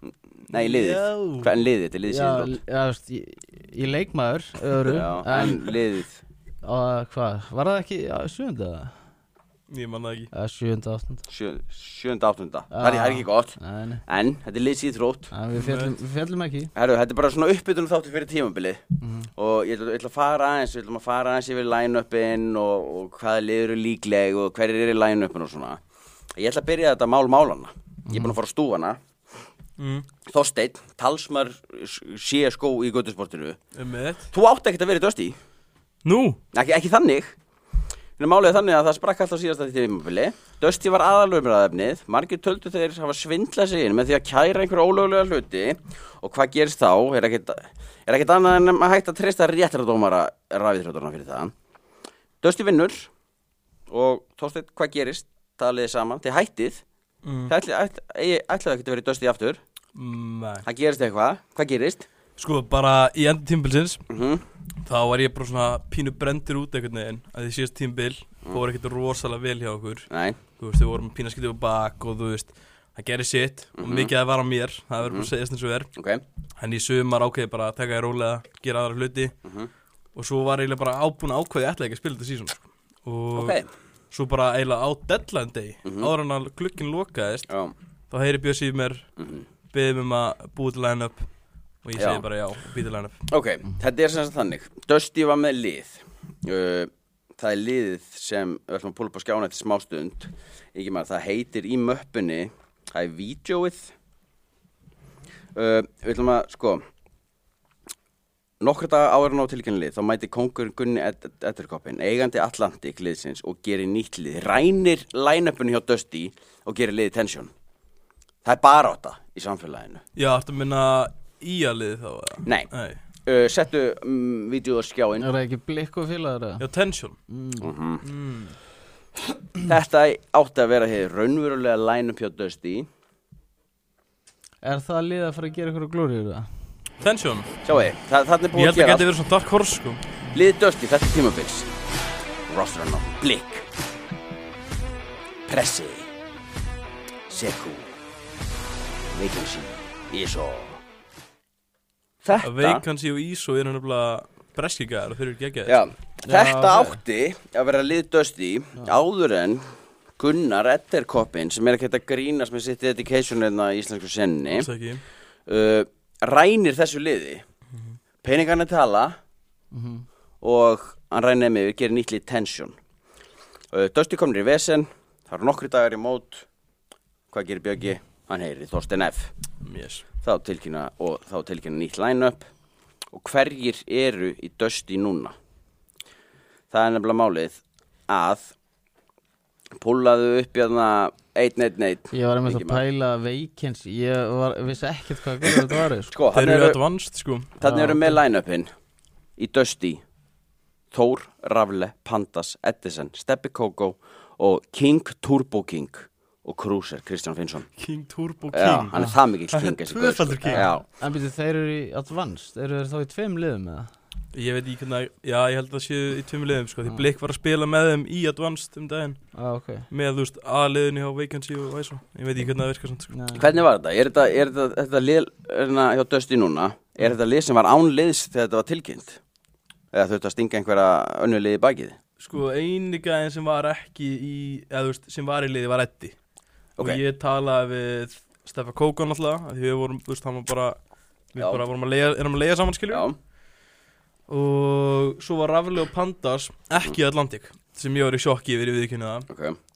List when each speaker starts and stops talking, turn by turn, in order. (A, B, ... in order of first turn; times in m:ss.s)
0:00.4-0:02.6 A
0:00.5-0:01.5 B
0:02.1-0:05.8 C
0:04.9-0:06.2 A
0:06.6-0:09.0 C
0:09.7-0:10.3 B
0:10.3-0:11.3 C
0:11.3-0:15.3 A
0:12.7-0:14.0 C
0:15.3-0:16.7 C
0:15.5-0:16.0 B
0:16.8-0:18.8 A
0:19.0-0:19.3 C
0:19.3-0:25.8 A
0:26.4-0:29.0 A
0:28.1-0:28.4 C
0:29.8-0:30.1 B
0:30.3-0:33.6 A
0:33.8-0:34.3 B
0:34.3-0:35.4 A
0:36.0-0:36.4 B
0:36.5-0:37.4 A
0:38.2-0:51.5 A
0:52.4-0:53.1 A
0:53.9-0:56.8 A
0:57.2-0:57.5 B
0:57.5-0:59.6 A
1:00.0-1:00.7 B
1:00.6-1:02.1 A
1:02.4-1:04.0 B
1:04.1-1:04.4 A
1:04.8-1:15.9 B
1:10.1-1:10.4 A
1:13.8-1:14.1 A
1:15.0-1:15.3 A
1:15.9-1:16.2 A
1:16.6-1:19.3 B
1:19.4-1:19.7 A
1:20.2-1:23.6 B
1:23.4-1:23.7 A
1:24.1-1:27.5 B
1:25.8-1:26.1 A
1:27.5-1:27.7 A
1:28.1-1:29.1 B
1:29.2-1:29.5 A
1:29.7-1:31.3 B
1:31.8-1:33.2 B
1:32.0-1:32.2 A
1:33.3-1:43.9 A
1:45.6-1:46.8 A
1:48.6-1:57.5 A
1:58.4-2:00.0 A
2:00.2-2:03.0 B
2:03.2-2:05.3 A
2:05.2-2:06.6 C
2:06.6-2:07.2 B
2:07.3-2:07.7 C
2:07.6-2:08.0 A
2:08.0-2:08.6 B
2:09.6-2:12.9 A
2:14.6-2:16.5 C
2:17.0-2:17.6 B
2:17.6-2:19.1 A
2:18.5-2:20.3 B
2:20.3-2:21.7 A
2:22.5-2:23.7 A
2:25.5-2:26.1 A
2:27.3-2:27.9 A
2:29.1-2:30.8 A
2:32.2-2:32.8 A
2:32.4-2:35.8 B
2:35.7-2:39.6 A
2:36.2-2:37.0 C
2:40.2-2:44.7 A
2:44.6-2:45.0 B
2:45.5-2:47.4 A
2:48.2-2:49.2 A
2:49.7-2:50.0 C
2:50.4-2:52.7 A
2:53.7-2:56.5 A
2:57.3-2:59.3 A
2:59.6-3:00.0 B
3:00.2-3:02.5 A
3:03.1-3:05.3 A
3:06.7-3:08.5 A
3:09.8-3:12.8 A
3:12.1-3:16.1 C
3:16.1-3:16.8 A
3:16.3-3:17.6 B
3:17.6-3:18.7 A
3:17.6-3:18.2 C
3:19.4-3:20.0 A
3:20.9-3:27.7 A
3:27.8-3:30.8 B
3:28.5-3:30.9 A
3:30.5-3:33.9 C
3:34.3-3:43.1 B
3:39.3-3:39.9 C
3:43.1-3:43.5 C
3:43.3-3:49.2 A
3:49.9-3:52.0 A
3:52.2-3:56.2 B
3:56.8-4:00.8 B
4:01.3-4:03.1 B
4:01.4-4:01.6 A
4:02.9-4:03.2 A
4:04.3-4:09.3 B
4:09.3-4:09.6 A